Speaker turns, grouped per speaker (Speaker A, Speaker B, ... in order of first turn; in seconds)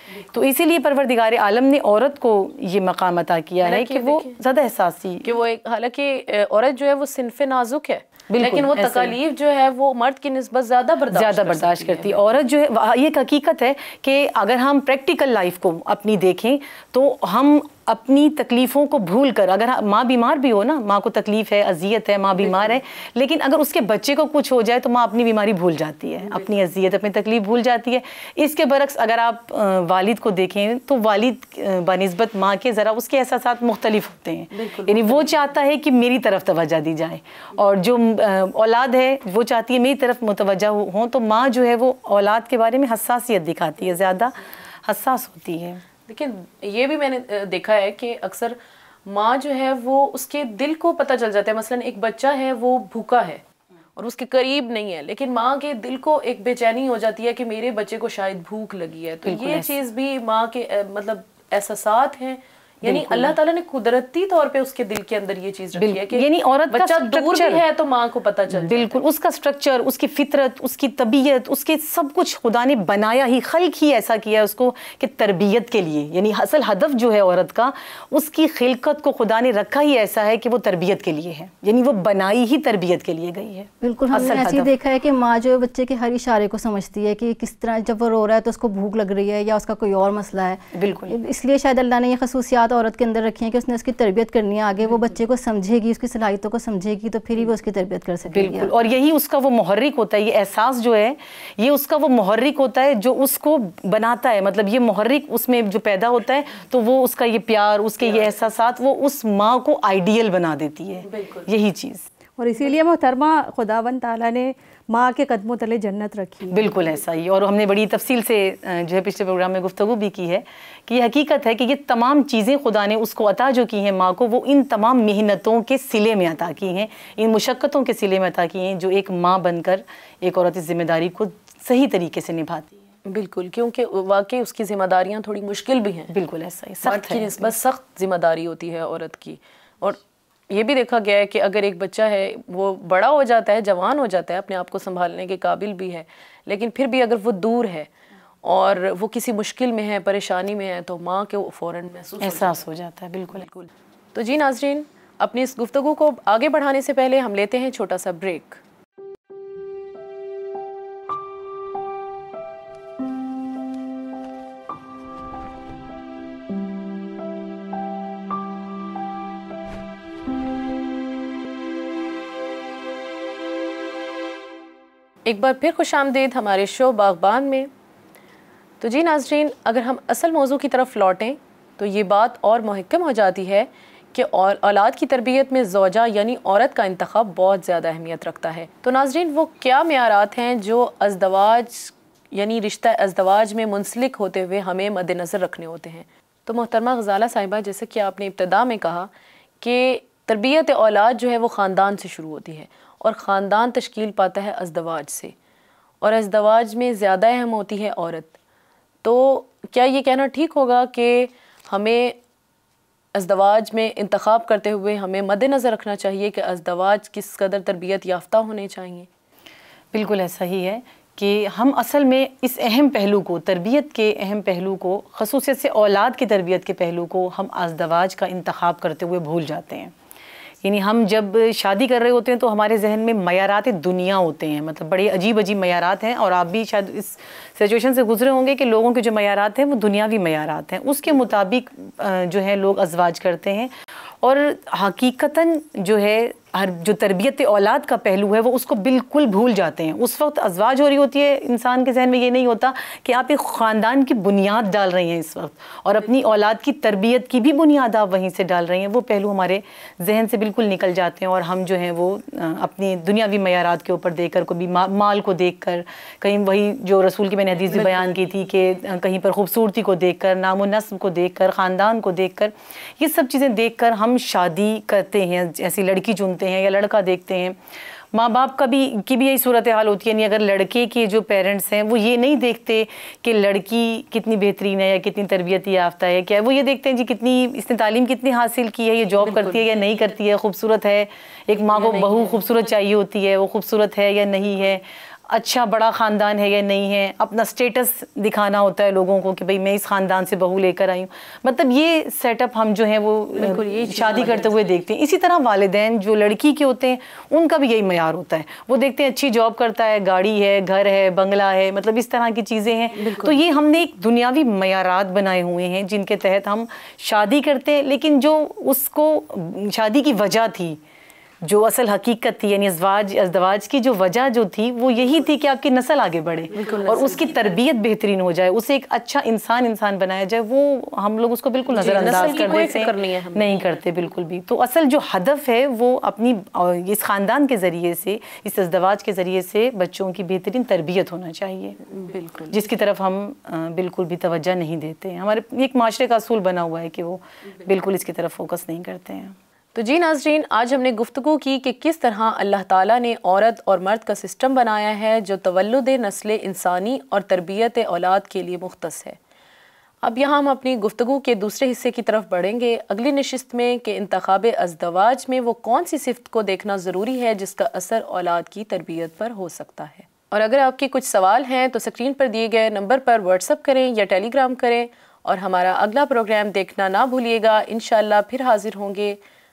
Speaker A: 0.3-5.3, 8.3-9.2, 11.1-45.8, 59.2-59.7, 62.8-63.4, 65.8-67.6, 68.5-84.7, 90.7-91.1, 98.3-112.1, 116.5-132.7, 136.1-137.5, 152.2-153.4, 219.9-229.9, 230.6-243.7, 244.2-277.6, 278.1-320.8, 321.4-341.8, 342.5-349.3
Speaker B: 3.6-4.3, 5.2-12.2, 22.4-22.8, 34.5-35.4, 46.1-53.4, 54.0-69.0, 108.1-108.4, 111.0-111.5, 133.0-136.1, 136.8-147.9, 148.4-152.6, 153.3-158.6, 175.2-177.7, 178.8-199.1, 199.6-205.3, 206.0-208.4, 209.0-212.2, 213.1-219.1, 289.2-289.7, 291.7-292.6, 303.4-304.8, 312.9-313.4, 326.5-327.4, 331.7-333.7, 341.9-342.6, 349.7-359.2, 360.0-379.2
Speaker C: 83.8-98.7
Speaker D: 112.4-116.7